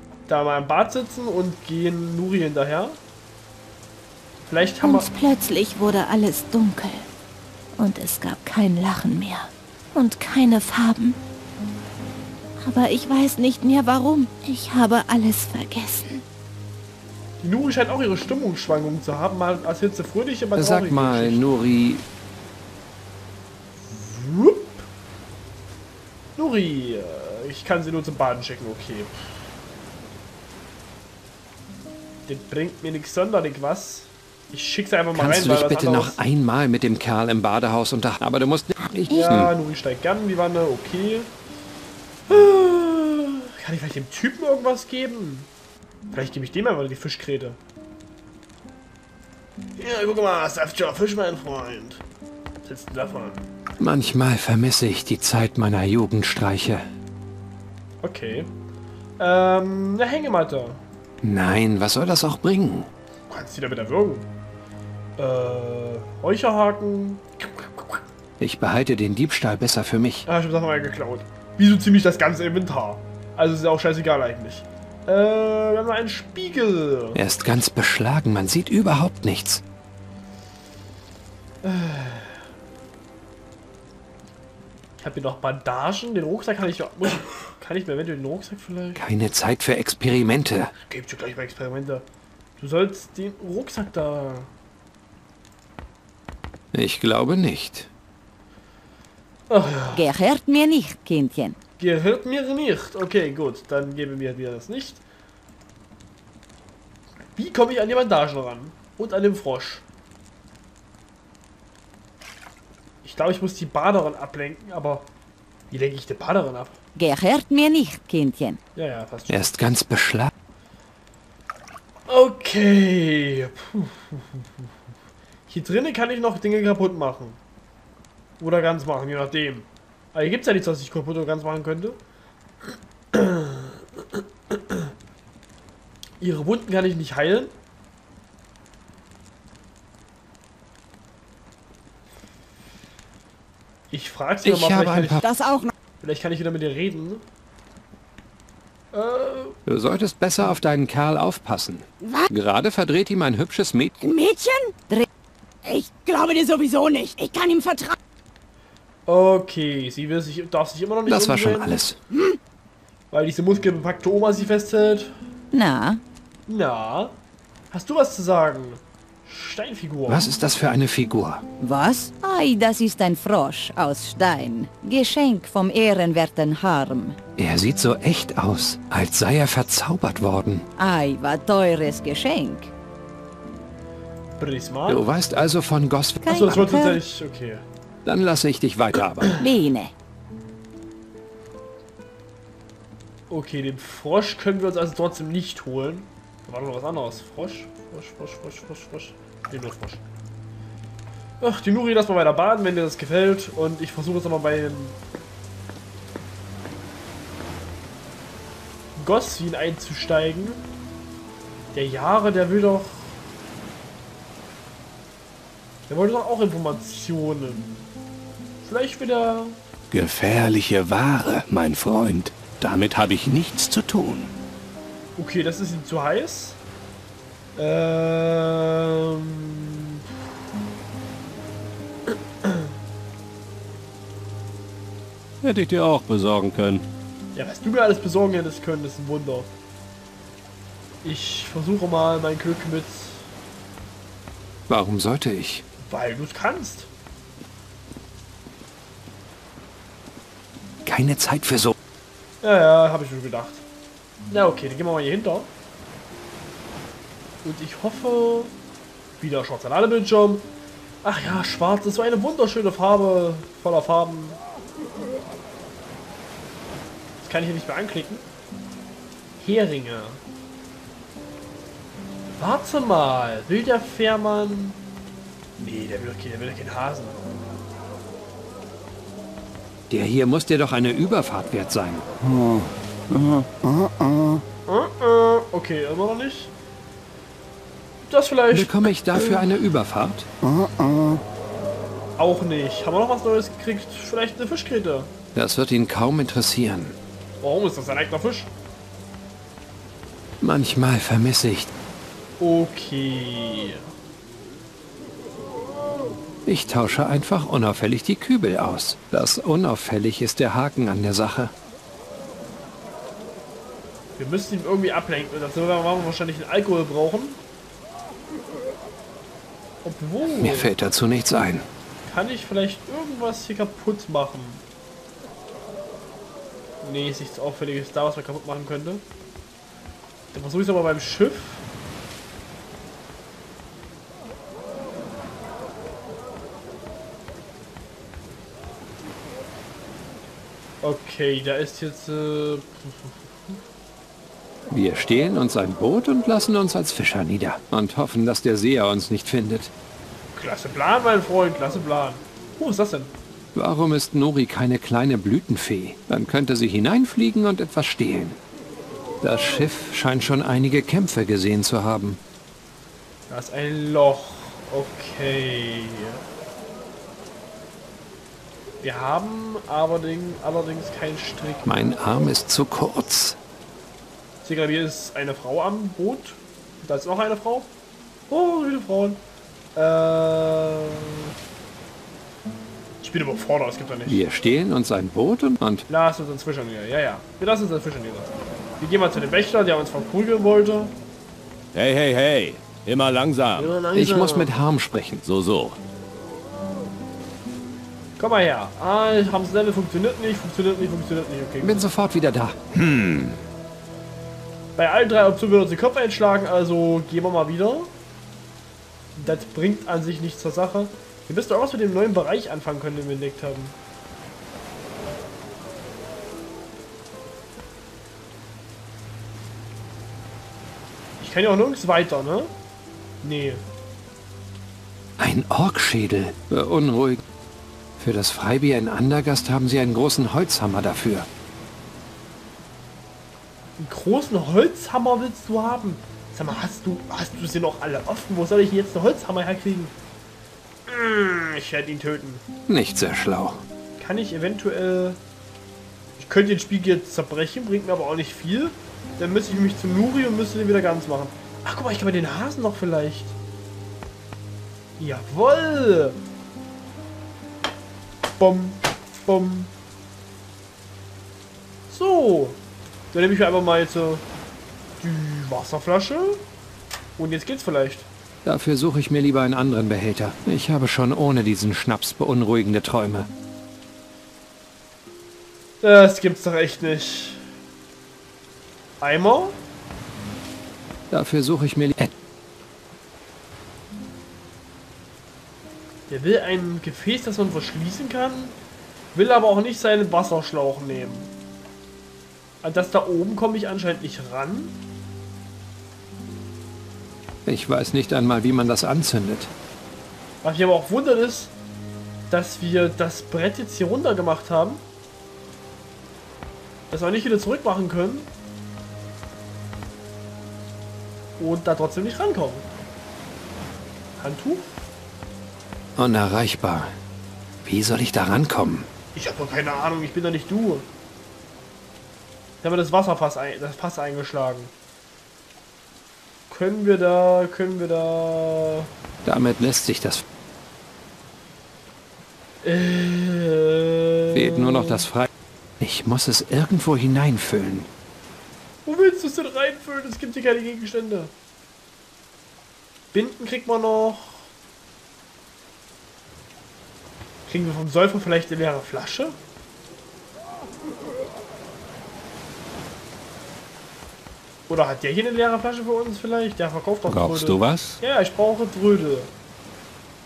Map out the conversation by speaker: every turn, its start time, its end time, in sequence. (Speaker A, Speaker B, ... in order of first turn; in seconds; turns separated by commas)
Speaker A: 0.3-3.0, Speaker A: 4.5-5.1, Speaker B: 4.8-7.1, Speaker B: 7.8-11.2, Speaker B: 12.6-16.2, Speaker A: 17.4-21.4, Speaker C: 20.6-22.1, Speaker A: 23.8-24.9, Speaker A: 26.4-29.5, Speaker A: 32.3-36.2, Speaker C: 35.1-39.5, Speaker A: 39.1-41.3, Speaker A: 42.3-45.5, Speaker A: 46.1-47.6, Speaker A: 49.8-52.0, Speaker A: 52.6-53.5, Speaker C: 53.8-56.9, Speaker A: 58.0-58.5, Speaker A: 59.2-60.8, Speaker C: 61.2-62.9, Speaker A: 63.3-64.2, Speaker A: 65.2-68.0, Speaker C: 68.4-70.2, Speaker A: 70.2-77.2, Speaker C: 77.1-79.6, Speaker A: 81.6-82.4, Speaker A: 85.0-89.0, Speaker C: 89.0-90.7, Speaker A: 90.8-92.0, Speaker A: 92.6-94.5, Speaker C: 96.7-97.9, Speaker A: 99.5-100.1, Speaker D: 99.9-101.6, Speaker A: 101.8-105.0, Speaker A: 107.3-109.8, Speaker A: 113.0-115.1, Speaker A: 115.7-116.8, Speaker D: 116.9-118.6, Speaker A: 118.7-119.5, Speaker C: 119.3-120.3, Speaker A: 122.1-124.5, Speaker A: 125.5-127.4, Speaker A: 128.4-132.0, Speaker A: 132.7-134.9, Speaker A: 136.2-137.5, Speaker A: 143.9-145.2, Speaker C: 144.4-145.2, Speaker E: 145.2-145.7, Speaker A: 146.0-147.2, Speaker A: 148.9-149.6, Speaker C: 149.7-154.0, Speaker E: 152.0-152.3, Speaker E: 154.0-154.7, Speaker E: 155.6-157.9, Speaker A: 159.1-161.8, Speaker C: 161.1-162.0, Speaker E: 162.1-162.4, Speaker A: 163.1-165.1, Speaker D: 165.5-166.0, Speaker A: 166.5-167.2, Speaker A: 167.7-170.3, Speaker C: 170.1-171.4, Speaker D: 171.6-177.2, Speaker C: 177.4-180.7, Speaker D: 180.8-182.7, Speaker A: 184.4-185.1, Speaker C: 184.9-186.8, Speaker D: 186.2-187.0, Speaker A: 186.3-187.6, Speaker C: 188.0-189.3, Speaker D: 189.4-189.9, Speaker A: 193.3-200.0, Speaker A: 201.4-205.0, Speaker A: 209.0-210.6, Speaker A: 211.7-213.2, Speaker A: 215.9-217.7, Speaker A: 218.6-219.6, Speaker F: 219.9-224.3, Speaker A: 225.2-226.6, Speaker A: 227.6-230.0, Speaker A: 232.4-232.7, Speaker F: 235.4-236.8, Speaker A: 237.3-239.5, Speaker A: 241.0-243.3, Speaker C: 244.7-245.6, Speaker A: 245.8-246.9, Speaker C: 250.8-251.7, Speaker A: 252.4-253.6, Speaker A: 254.3-255.5, Speaker A: 257.4-258.5, Speaker A: 259.2-260.5, Speaker A: 261.0-264.4, Speaker A: 267.2-268.2, Speaker A: 269.4-270.2, Speaker A: 272.3-274.8, Speaker A: 275.6-277.2, Speaker C: 279.9-282.1, Speaker A: 284.7-286.5, Speaker A: 288.0-289.4, Speaker C: 288.5-290.3, Speaker A: 292.2-295.1, Speaker C: 295.3-297.0, Speaker A: 297.4-298.5, Speaker C: 300.4-301.7, Speaker A: 302.4-303.9, Speaker C: 306.4-311.5, Speaker A: 314.2-317.4, Speaker A: 319.8-320.7, Speaker C: 320.3-321.7, Speaker A: 322.0-324.6, Speaker A: 326.8-329.0, Speaker A: 330.3-331.6, Speaker A: 340.8-343.6, Speaker C: 344.7-349.7, Speaker A: 350.4-353.1, Speaker C: 353.5-358.4, Speaker C: 359.2-362.2, Speaker A: 363.3-366.2, Speaker A: 368.8-371.9, Speaker C: 371.6-373.4, Speaker A: 374.4-377.7, Speaker A: 378.3-379.2, Speaker A: 379.7-381.3, Speaker A: 383.0-384.2, Speaker C: 384.1-385.9, Speaker A: 385.9-390.9, Speaker F: 391.7-393.7, Speaker A: 393.6-394.5, Speaker C: 393.9-395.2, Speaker F: 395.2-395.8, Speaker A: 398.2-401.8, Speaker C: 401.6-402.6, Speaker F: 402.9-403.2, Speaker A: 404.8-407.9, Speaker A: 409.1-413.7, Speaker A: 421.2-422.5, Speaker A: 423.2-423.6, Speaker C: 425.2-427.2, Speaker C: 428.0-431.3, Speaker A: 433.8-439.9, Speaker A: 440.9-442.4, Speaker C: 442.7-443.6, Speaker A: 444.0-445.2, Speaker A: 446.2-453.4, Speaker A: 455.0-456.2, Speaker A: 458.4-459.7, Speaker A: 461.9-462.6, Speaker A: 463.1-464.2, Speaker A: 465.0-466.4, Speaker A: 467.2-468.1, Speaker C: 468.4-473.3, Speaker A: 475.8-477.4, Speaker A: 479.0-479.6, Speaker C: 481.1-482.1, Speaker A: 486.1-488.6, Speaker A: 489.1-491.3, Speaker A: 492.6-494.8, Speaker C: 497.4-499.5, Speaker A: 500.4-501.5, Speaker A: 502.3-504.8, Speaker A: 506.9-508.3, Speaker A: 511.4-512.6, Speaker A: 514.2-514.7, Speaker C: 516.0-516.9, Speaker C: 517.6-518.9, Speaker A: 519.1-520.9, Speaker A: 522.6-524.7, Speaker A: 526.5-528.9, Speaker C: 529.2-530.2, Speaker A: 532.6-535.1, Speaker C: 534.3-535.3, Speaker C: 535.8-537.9, Speaker A: 538.9-541.3, Speaker A: 543.1-544.5, Speaker A: 547.5-549.4, Speaker A: 554.7-559.3, Speaker F: 557.1-558.0